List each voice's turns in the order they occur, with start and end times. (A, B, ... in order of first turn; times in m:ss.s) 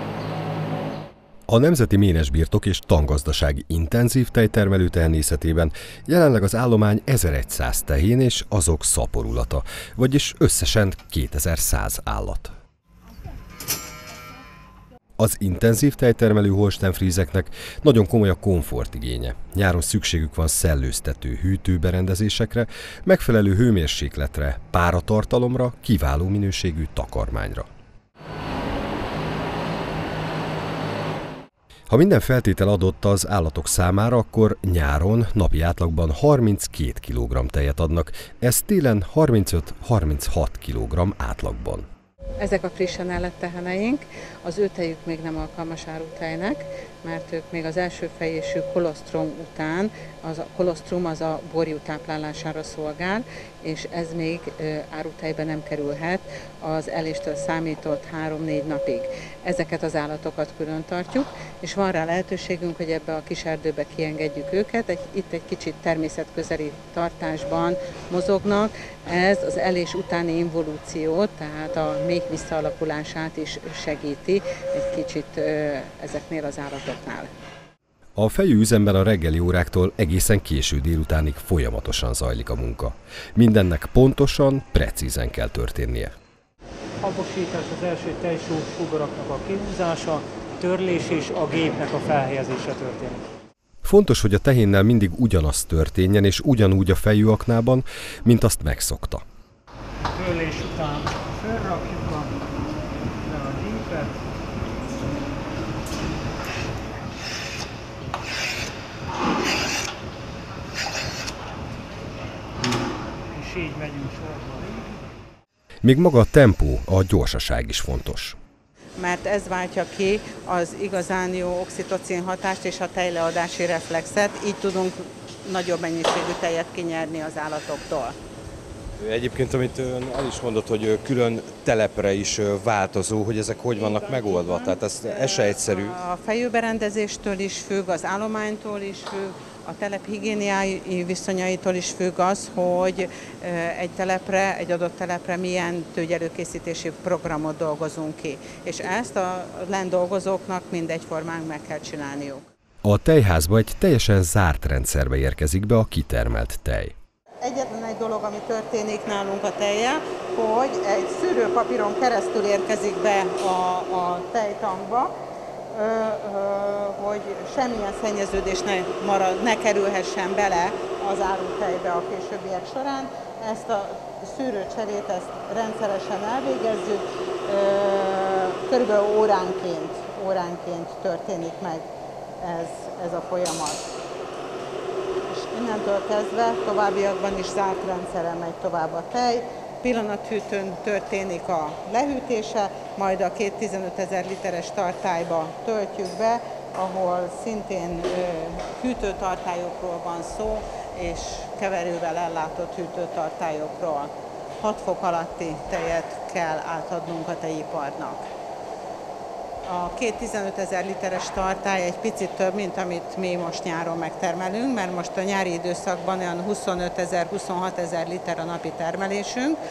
0:01.5-0:12.5 A
0:15.2-0:27.7 A
0:31.9-0:41.9 A
0:42.4-1:17.3 B
1:18.2-1:26.1 A
1:27.0-1:33.2 C
1:33.8-1:39.2 A
1:40.1-1:42.3 C
1:43.2-1:44.2 C
1:53.3-1:55.1 C
1:55.8-1:58.4 A
1:59.0-2:08.2 B
2:09.0-2:11.7 D
2:13.8-2:32.4 B
2:13.8-2:15.9 D
2:32.8-2:37.0 A
2:37.4-2:45.1 B
2:45.7-3:01.8 B
3:02.4-3:03.8 B
3:05.3-3:24.1 B
3:24.6-3:28.2 B
3:29.6-3:39.6 B